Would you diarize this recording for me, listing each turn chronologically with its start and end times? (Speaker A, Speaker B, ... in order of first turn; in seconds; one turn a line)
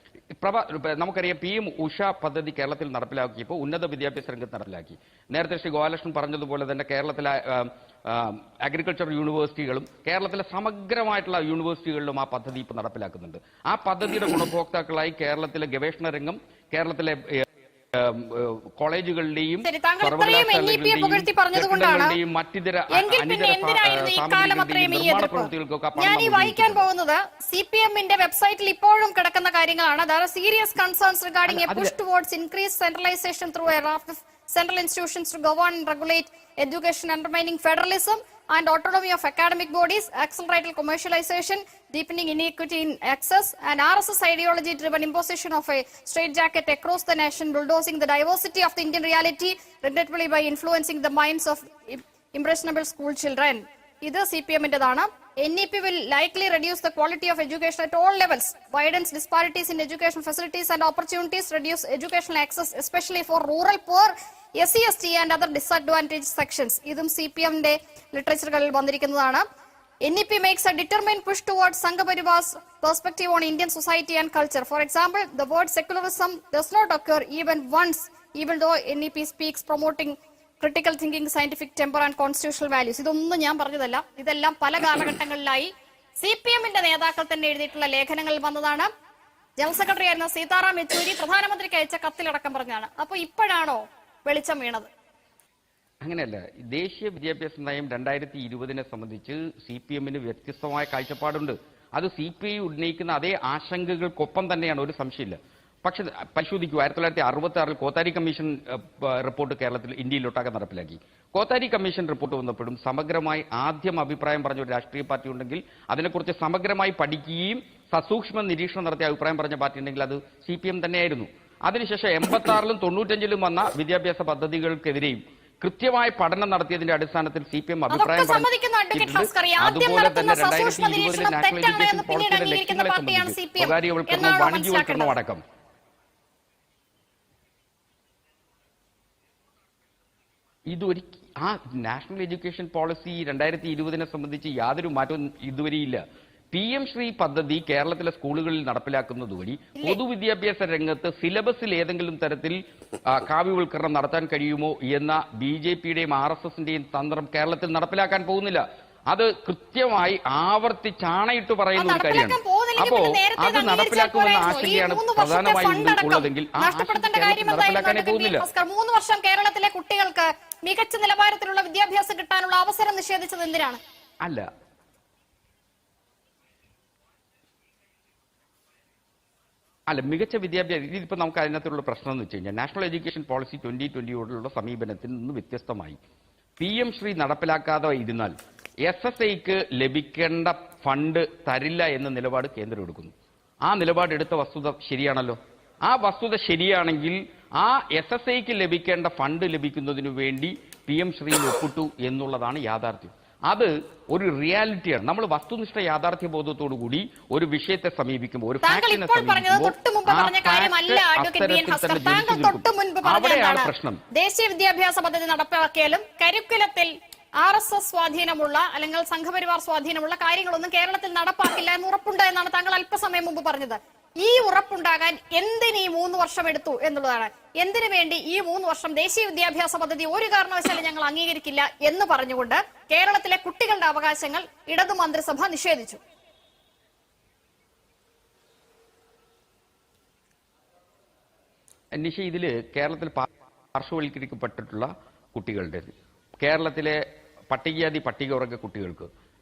Speaker A: 0.4-26.9
Speaker B: 19.6-22.1
Speaker B: 22.9-69.4
Speaker A: 31.5-31.9
Speaker B: 70.0-88.9
Speaker B: 89.6-94.9
Speaker A: 96.0-135.4
Speaker B: 127.9-135.1
Speaker A: 140.7-168.4
Speaker B: 161.8-173.8
Speaker A: 179.9-186.0
Speaker A: 186.6-188.3
Speaker A: 188.8-193.1
Speaker A: 193.7-214.0
Speaker B: 208.6-236.0
Speaker A: 241.9-247.0
Speaker A: 247.5-249.1